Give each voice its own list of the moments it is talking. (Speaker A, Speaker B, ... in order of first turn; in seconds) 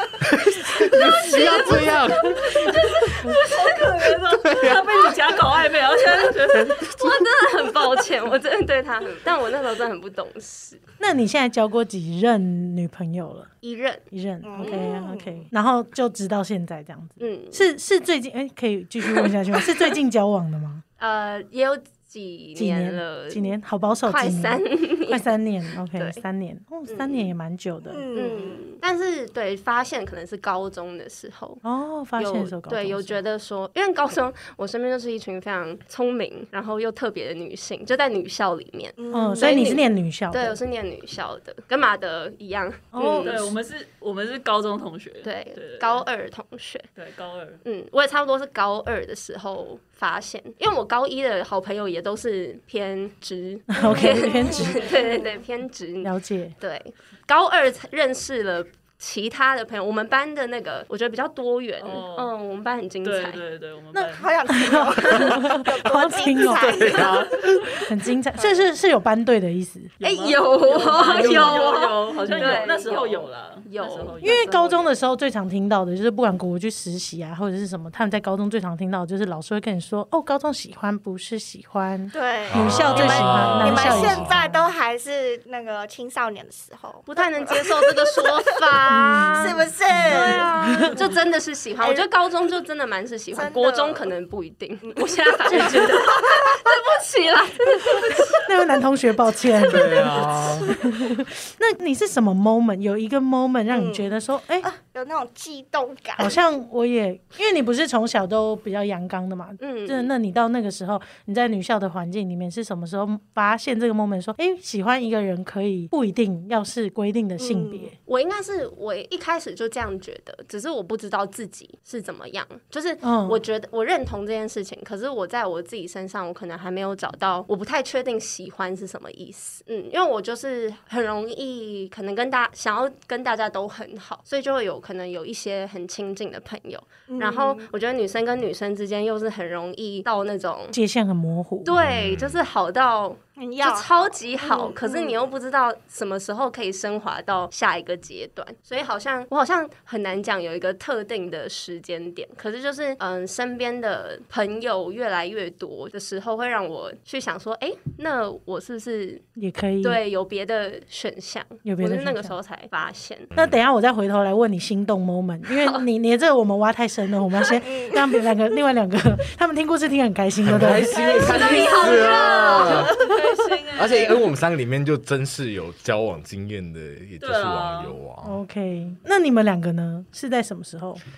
Speaker A: 0.2-2.4, 4.3-5.0, 6.5-7.2, 66.5-67.7, 82.5-84.3, 99.7-100.7, 141.7-142.4, 170.4-172.9, 173.8-178.4
Speaker B: 0.7-3.7, 6.7-10.8, 13.6-14.0, 14.6-14.9, 17.2-17.7, 19.1-19.8, 21.0-26.2, 26.9-27.3, 28.1-31.6, 32.2-43.5, 45.2-46.9, 47.6-63.4, 70.0-74.5, 87.1-98.5, 109.6-110.1, 118.1-140.8, 141.6-159.3, 159.8-163.3, 170.8-172.9
Speaker C: 2.5-6.8, 43.2-46.0, 46.9-47.6, 61.8-62.3, 63.0-64.3, 70.0-74.8, 170.9-174.2, 177.2-178.0
Speaker D: 11.0-13.5, 14.1-20.8, 22.6-28.1, 31.6-33.2, 39.1-40.6, 42.9-43.5, 53.7-54.9, 56.0-56.5, 63.9-67.1, 67.7-69.9, 70.8-71.7, 72.3-72.6, 74.2-84.6, 88.9-91.0, 95.5-96.0, 98.1-104.7, 106.2-117.9, 123.0-123.4, 140.7-141.7, 159.4-160.0, 161.6-162.3, 163.3-171.0, 178.2-181.0
Speaker E: 14.4-15.5, 27.9-28.6, 39.0-39.8, 54.3-55.0, 64.1-67.5, 68.4-68.6, 82.1-88.6, 89.3-91.0, 91.8-92.1, 93.3-94.1, 94.9-96.8, 100.5-100.7, 103.7-106.4, 117.4-117.9, 137.1-137.7, 143.4-145.2, 167.6-168.0